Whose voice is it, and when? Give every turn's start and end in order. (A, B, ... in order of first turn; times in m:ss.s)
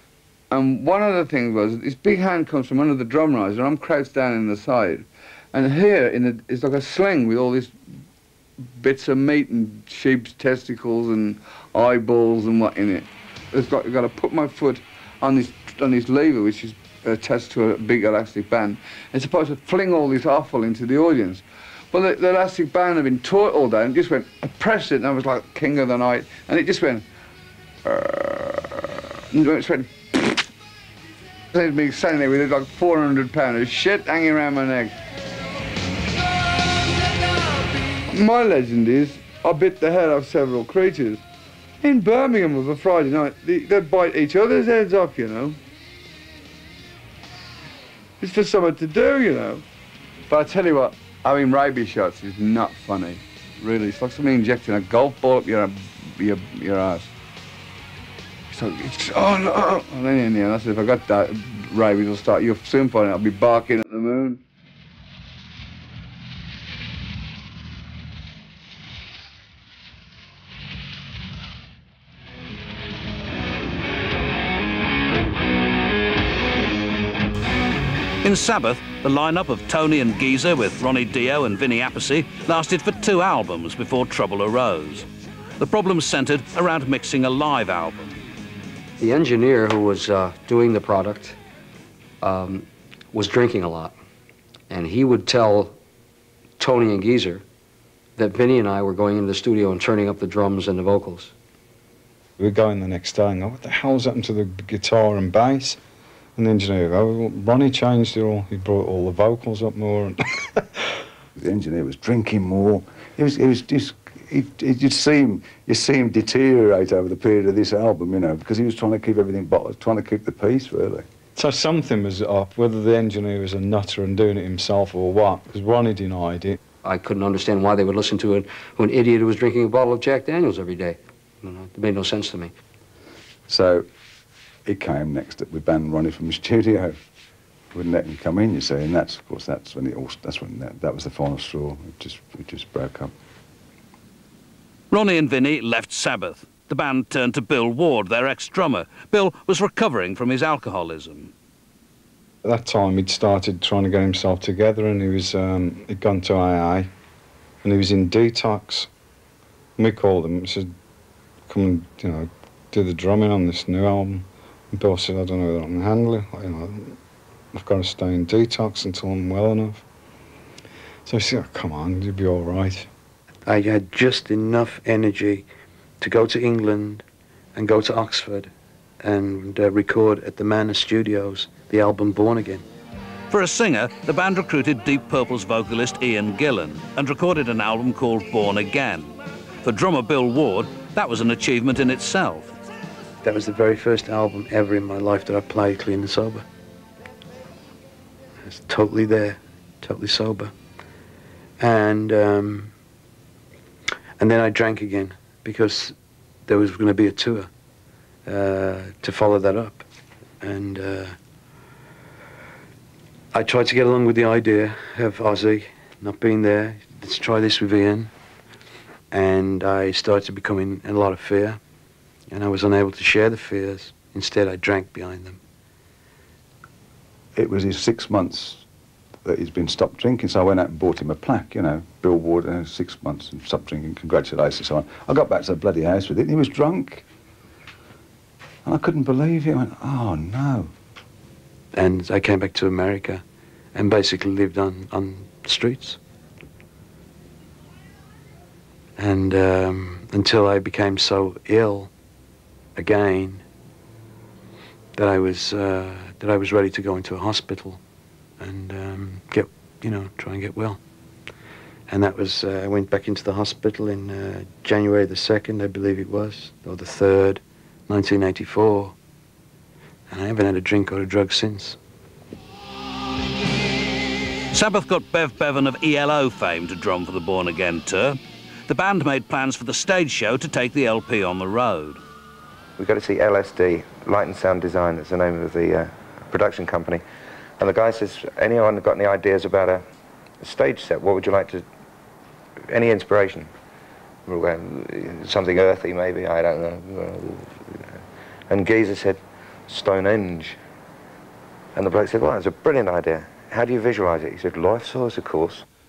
0:00.5-0:07.7 A
0:08.7-0:27.0 A
0:27.8-0:30.4 A
0:31.5-0:35.0 A
0:38.1-0:41.2 A
0:41.8-0:45.6 A
0:48.2-0:49.6 A
0:50.3-0:57.1 A
0:58.5-1:04.4 A
1:18.2-1:25.1 B
1:25.6-1:28.2 B
1:29.0-1:31.4 C
1:32.2-1:33.9 C
1:34.7-1:35.8 C
1:36.6-1:37.4 C
1:38.2-1:41.3 C
1:42.4-1:45.8 D
1:46.4-1:50.8 D
1:51.4-2:01.1 E
2:01.4-2:06.6 D
2:06.8-2:12.5 C
2:13.5-2:13.9 E
2:14.6-2:17.0 E
2:17.7-2:23.1 E
2:24.9-2:31.3 B
2:32.4-2:36.9 D
2:37.6-2:38.9 D
2:39.8-2:40.7 D
2:41.5-2:47.0 D
2:47.5-2:49.8 D
2:51.0-2:52.9 D
2:53.5-2:55.5 F
2:56.0-3:02.6 F
3:03.3-3:12.6 B
3:13.2-3:16.4 F
3:18.4-3:20.5 F
3:21.6-3:22.7 F
3:24.2-3:26.0 F
3:26.5-3:27.5 F
3:28.2-3:29.8 F
3:30.4-3:31.2 F
3:33.3-3:38.1 F
3:39.1-3:41.6 F
3:42.3-3:45.4 F
3:47.4-3:48.6 E
3:49.2-3:57.0 E
3:58.6-4:00.7 E
4:01.7-4:03.2 F
4:03.8-4:06.0 F
4:09.0-4:11.9 F
4:12.8-4:13.4 F
4:15.0-4:17.8 F
4:18.4-4:20.8 F
4:21.9-4:29.0 F
4:30.1-4:31.8 F
4:34.5-4:42.0 B
4:42.8-4:47.0 G
4:47.6-4:49.8 G
4:50.4-4:51.6 G
4:52.7-4:53.5 G
4:54.2-4:58.0 G
4:58.5-5:00.6 G
5:01.8-5:05.6 G